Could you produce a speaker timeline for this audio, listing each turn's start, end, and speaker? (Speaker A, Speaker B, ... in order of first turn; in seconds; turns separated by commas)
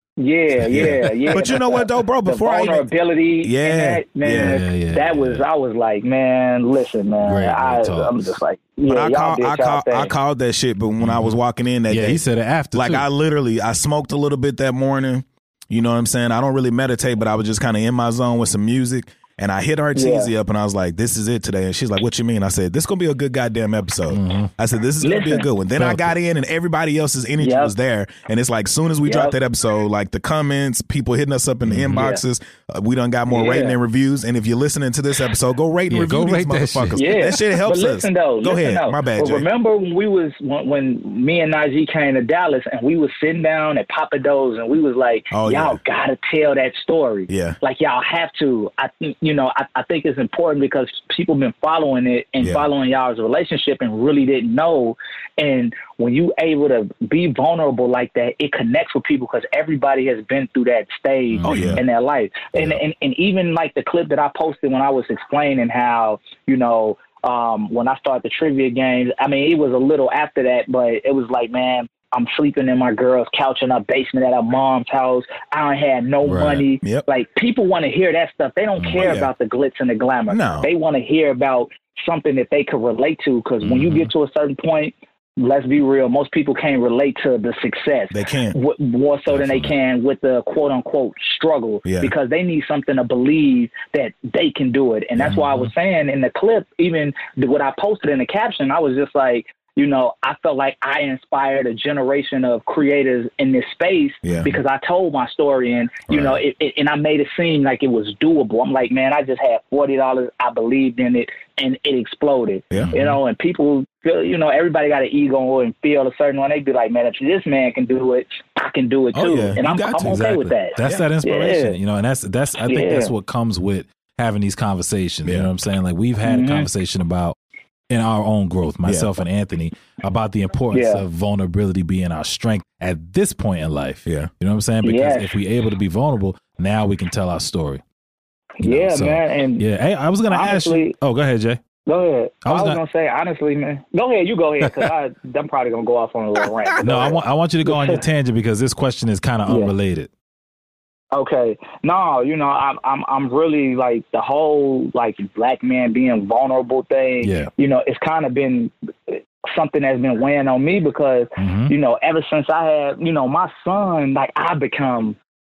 Speaker A: 0.2-10.1, Speaker B: 0.7-2.9, Speaker C: 0.7-1.2, Speaker B: 3.4-4.6, Speaker C: 4.3-5.5, Speaker C: 7.2-8.3, Speaker B: 8.9-39.5, Speaker C: 11.0-13.1, Speaker A: 19.9-20.3, Speaker C: 24.1-24.5, Speaker A: 25.0-25.5, Speaker C: 25.8-26.1, Speaker A: 27.4-27.7, Speaker A: 29.0-29.3, Speaker C: 31.6-32.0, Speaker A: 31.9-32.2, Speaker A: 33.3-33.8, Speaker C: 35.9-37.1, Speaker A: 36.9-121.8, Speaker B: 45.3-45.8, Speaker B: 47.3-47.6, Speaker B: 52.4-52.7, Speaker C: 61.3-61.8, Speaker B: 61.4-61.8, Speaker C: 76.2-76.6, Speaker C: 78.8-79.1, Speaker B: 79.0-79.3, Speaker B: 80.3-80.7, Speaker C: 83.6-84.1, Speaker B: 88.1-88.5, Speaker C: 89.3-89.7, Speaker B: 91.8-92.1, Speaker C: 95.2-95.7, Speaker B: 104.2-104.5, Speaker C: 106.1-106.4, Speaker C: 112.8-113.2, Speaker B: 119.1-120.2, Speaker C: 120.0-127.3, Speaker B: 120.8-121.0, Speaker A: 122.7-123.1, Speaker A: 126.2-126.7, Speaker C: 127.9-137.8, Speaker A: 130.7-131.0, Speaker B: 134.1-134.3, Speaker A: 134.8-135.3, Speaker A: 138.6-139.6, Speaker C: 138.6-141.6, Speaker A: 140.3-140.9, Speaker A: 141.8-148.0, Speaker C: 142.4-142.8, Speaker B: 146.7-147.1, Speaker C: 146.8-150.1, Speaker A: 149.5-149.7, Speaker A: 151.1-165.2, Speaker C: 157.2-157.5, Speaker C: 161.4-161.7